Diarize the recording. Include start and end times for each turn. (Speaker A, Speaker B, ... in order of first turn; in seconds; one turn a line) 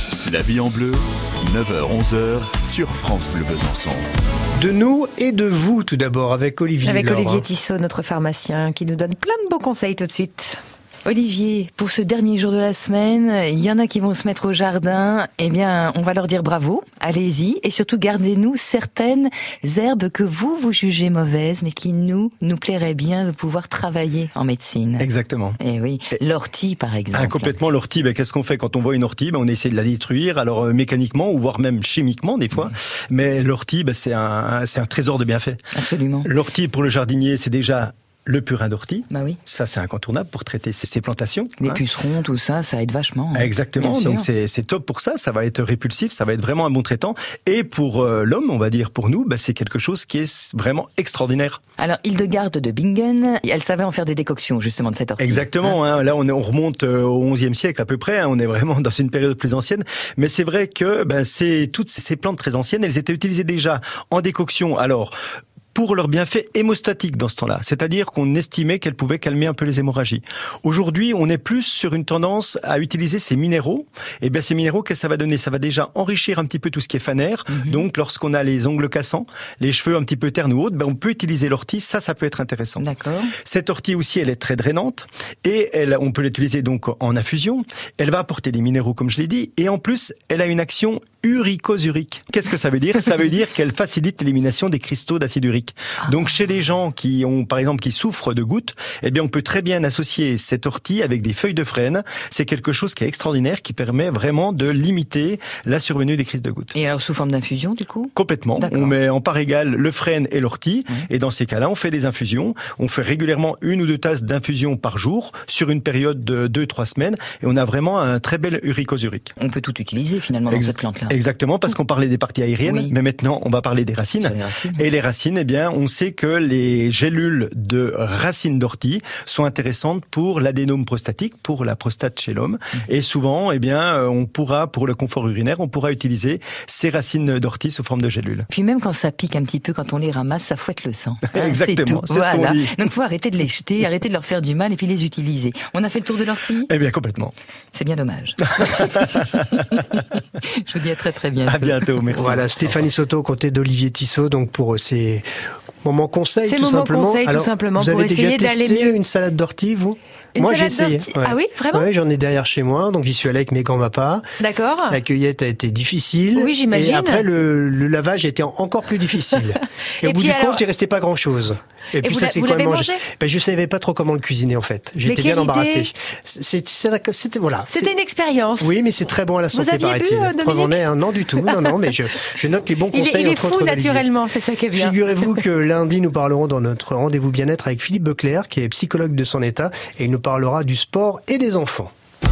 Speaker A: 0.2-4.1
Speaker B: 4.6-7.5
Speaker C: 6.8-10.6
Speaker D: 11.1-25.1
Speaker E: 25.0-25.6
Speaker D: 25.6-27.6
Speaker E: 27.1-35.7
Speaker D: 35.7-36.3
Speaker E: 36.2-41.8
Speaker D: 39.1-39.4
Speaker D: 41.6-44.3
Speaker E: 43.3-51.6
Speaker D: 51.8-55.7
Speaker E: 55.2-65.1
Speaker E: 65.7-82.8
Speaker D: 77.5-77.8
Speaker D: 82.8-83.3
Speaker E: 83.4-106.7
Speaker D: 106.7-108.9
Speaker E: 108.2-119.3
Speaker D: 119.4-121.1
Speaker E: 120.5-138.5
Speaker D: 122.6-122.9
Speaker D: 124.2-124.8
Speaker D: 138.5-146.7
Speaker E: 141.3-142.8
Speaker E: 146.7-147.3
Speaker D: 147.7-150.0
Speaker E: 148.6-149.8
Speaker D: 150.5-152.3
Speaker E: 151.4-152.6
Speaker B: 152.2-155.2
Speaker B: 155.8-164.2
Speaker C: 156.4-159.0
Speaker C: 160.3-161.9
Speaker C: 164.4-165.0
Speaker B: 164.9-177.9
Speaker C: 166.3-167.2
Speaker C: 170.0-170.6
Speaker C: 172.0-173.0
Speaker C: 175.0-175.9
Speaker C: 177.7-178.8
Speaker B: 178.6-184.1
Speaker C: 179.5-180.8
Speaker C: 182.9-185.0
Speaker B: 184.7-191.9